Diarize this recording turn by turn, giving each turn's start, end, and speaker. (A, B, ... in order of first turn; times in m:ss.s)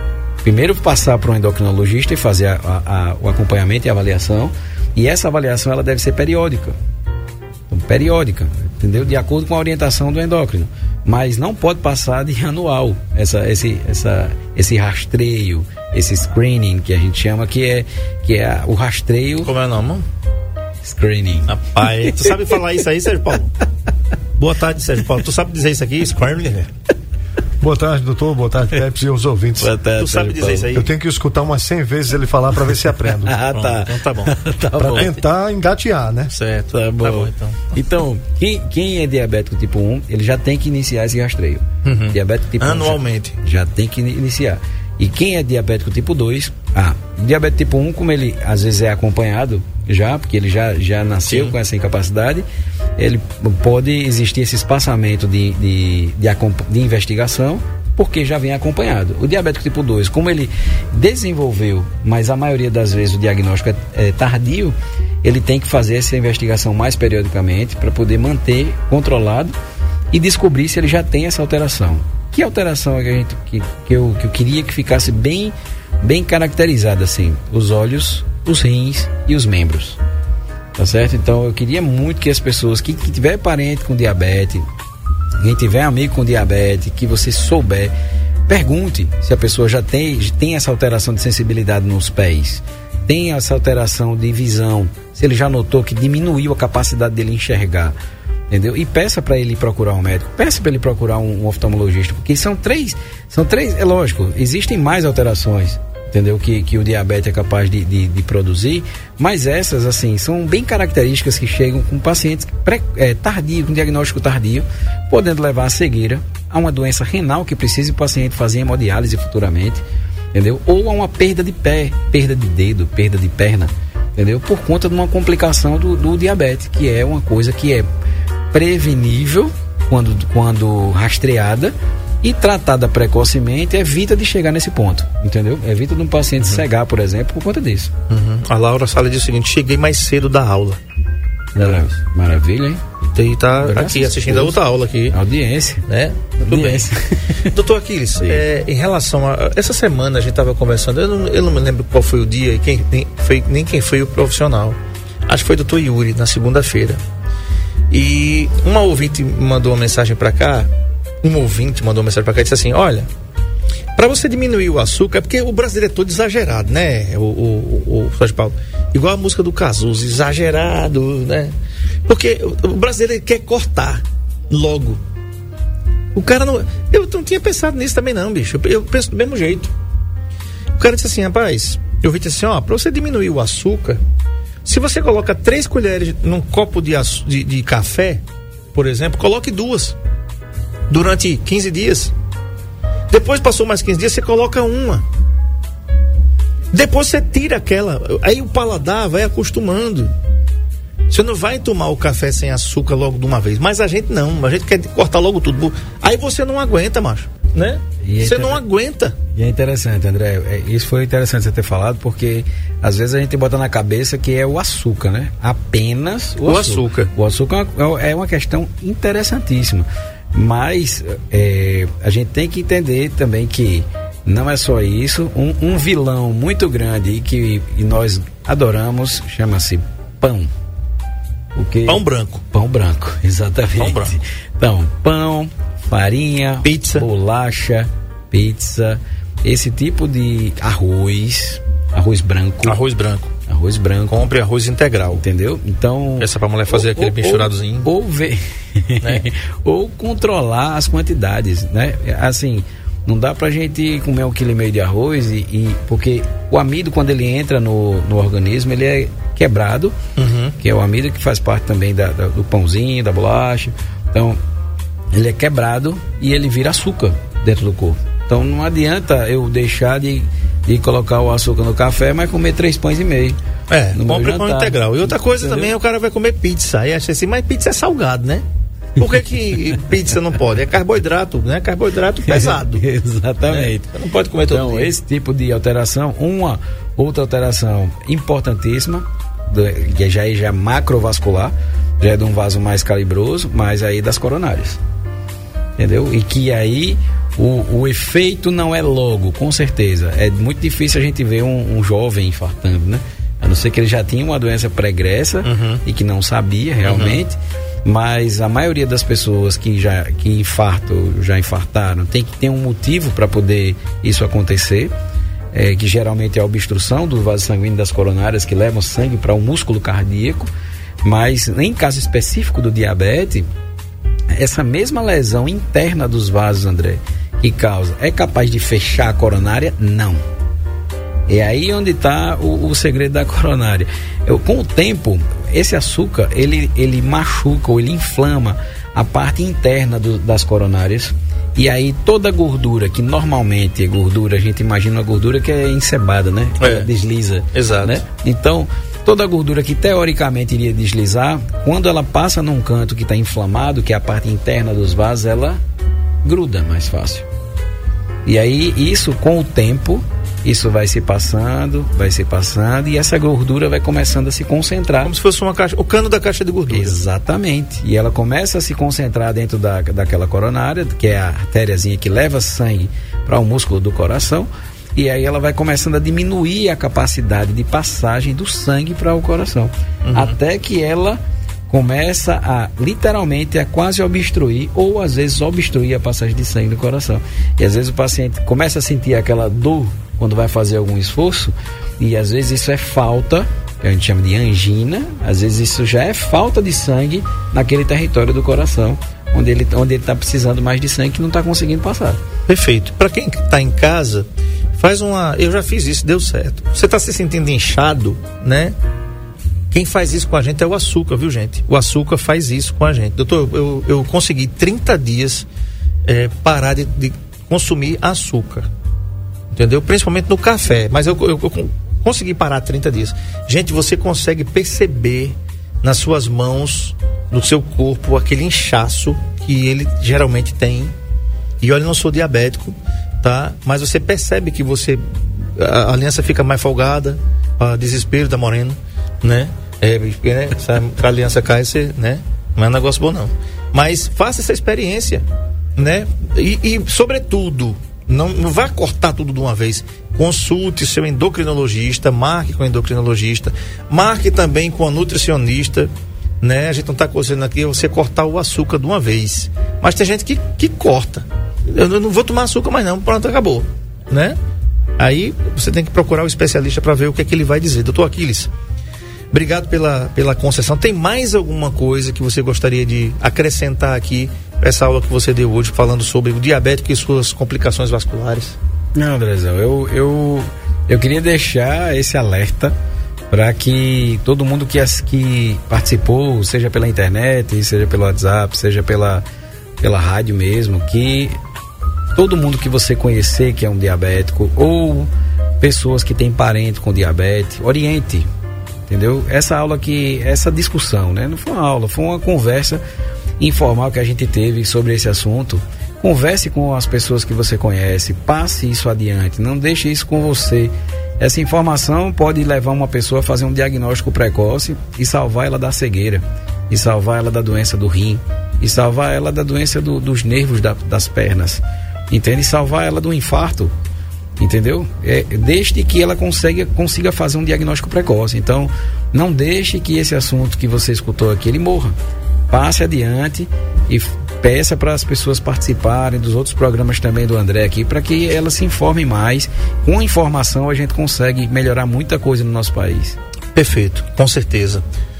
0:00.4-0:06.8 A
0:07.7-0:19.5 A
0:19.4-0:20.0 B
0:20.8-0:22.4 A
0:21.5-0:23.5 B
0:24.4-0:26.7 B
0:27.6-0:29.7 C
0:29.6-0:30.7 A
0:30.0-0:30.9 B
0:30.7-0:33.3 C
0:33.2-0:35.2 A
0:33.5-0:34.3 B
0:34.8-0:36.3 C
0:36.3-0:37.7 B
0:36.7-0:52.4 A
0:41.8-0:43.4 B
0:51.3-0:51.5 B
0:53.0-1:09.5 A
1:10.1-1:20.0 A
1:20.8-1:24.6 A
1:25.4-1:27.9 A
1:28.5-1:37.9 A
1:38.5-2:07.9 A
2:08.5-2:17.9 A
2:18.1-2:20.8 B
2:21.5-2:22.8 A
2:21.6-2:21.9 B
2:23.1-2:25.2 B
2:23.6-2:25.8 A
2:25.8-2:26.9 B
2:26.4-2:27.5 A
2:27.4-2:37.0 B
2:37.9-2:40.7 B
2:41.2-2:43.1 B
2:44.0-2:51.5 B
2:52.1-2:55.0 B
2:56.1-2:59.7 B
3:00.8-3:04.0 B
3:04.6-3:08.2 B
3:08.7-3:10.0 B
3:10.9-3:12.1 B
3:13.1-3:15.0 B
3:16.7-3:20.1 B
3:21.1-3:29.2 B
3:28.0-3:28.6 A
3:29.3-3:50.5 A
3:36.4-3:37.1 B
3:51.5-4:02.8 A
3:51.9-3:52.4 B
3:53.8-3:54.1 B
3:56.6-3:57.1 B
4:02.6-4:03.3 B
4:03.5-4:04.3 A
4:04.1-4:05.2 B
4:05.1-4:20.0 A
4:06.2-4:07.9 B
4:20.2-4:20.6 B
4:20.6-4:24.4 A
4:25.1-4:33.4 A
4:33.7-4:38.4 B
4:33.9-4:35.7 A
4:39.0-4:42.8 B
4:42.2-4:43.9 A
4:43.5-4:44.9 B
4:44.5-4:54.8 A
4:55.8-5:14.9 A
5:05.4-5:05.8 B
5:06.8-5:07.2 B
5:15.5-5:20.5 A
5:21.0-5:23.5 A
5:24.3-5:30.2 A
5:31.3-5:55.6 A
5:46.6-5:46.9 B
5:47.5-5:48.0 B
5:56.2-5:57.2 A
5:58.2-6:05.1 A
6:05.0-6:07.0 B
6:06.7-6:42.2 A
6:20.0-6:20.4 B
6:42.5-6:48.8 B
6:49.7-6:55.5 B
6:56.0-6:58.7 B
6:59.5-7:10.9 B
7:11.6-7:35.9 B
7:36.4-7:44.4 B
7:45.0-7:48.5 B
7:49.3-7:58.6 B
7:58.9-8:02.8 A
8:03.3-8:09.2 A
8:09.8-8:11.4 A
8:12.1-8:18.3 A
8:18.9-8:22.8 A
8:23.4-8:43.7 A
8:44.4-8:52.0 A
8:52.5-9:03.2 A
9:03.5-9:04.8 B